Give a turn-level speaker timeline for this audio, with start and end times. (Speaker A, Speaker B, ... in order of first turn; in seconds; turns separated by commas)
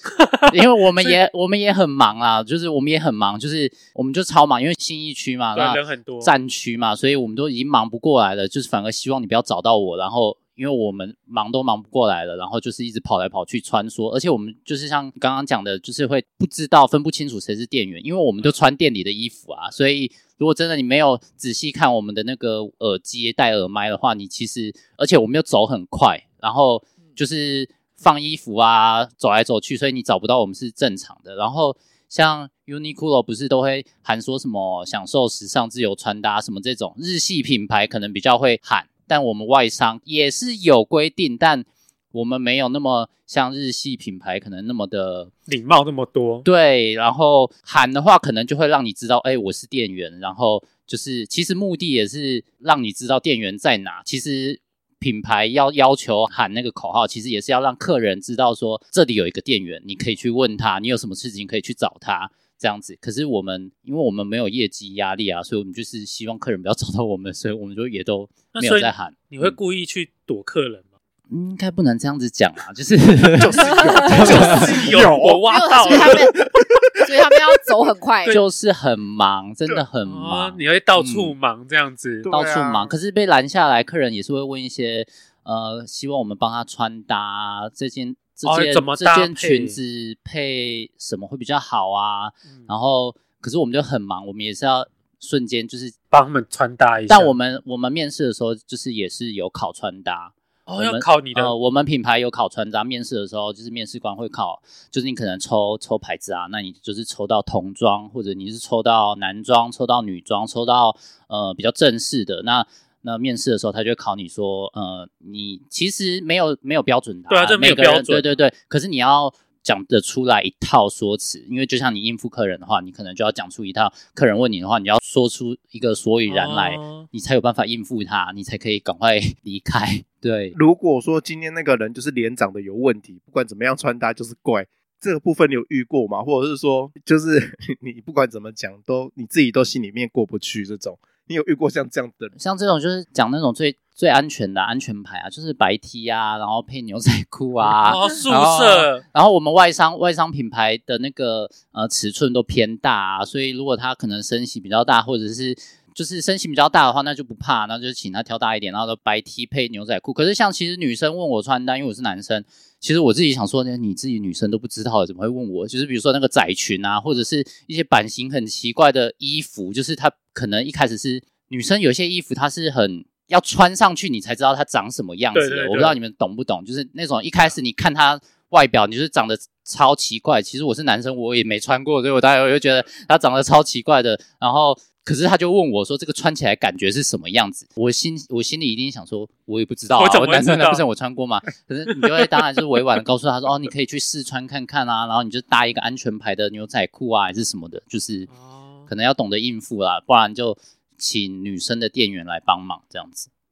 Speaker A: 0.2-1.2, Speaker B: 0.5-45.3, Speaker A: 5.5-6.3, Speaker A: 45.5-46.5, Speaker B: 46.4-69.6, Speaker A: 68.5-70.9, Speaker B: 71.3-74.7, Speaker C: 73.4-77.1, Speaker D: 73.6-74.6, Speaker A: 73.9-76.3, Speaker D: 75.5-78.4, Speaker B: 78.2-81.3, Speaker A: 80.0-82.3, Speaker C: 82.2-82.9, Speaker B: 82.3-95.9, Speaker A: 88.4-89.8, Speaker A: 96.1-97.3, Speaker B: 97.1-130.6, Speaker A: 100.7-101.5, Speaker A: 117.3-118.3, Speaker A: 126.3-127.1, Speaker C: 130.5-142.3, Speaker B: 142.3-198.3, Speaker A: 147.7-149.0, Speaker A: 175.3-176.0, Speaker A: 189.9-190.8, Speaker A: 198.3-198.9, Speaker B: 198.9-203.3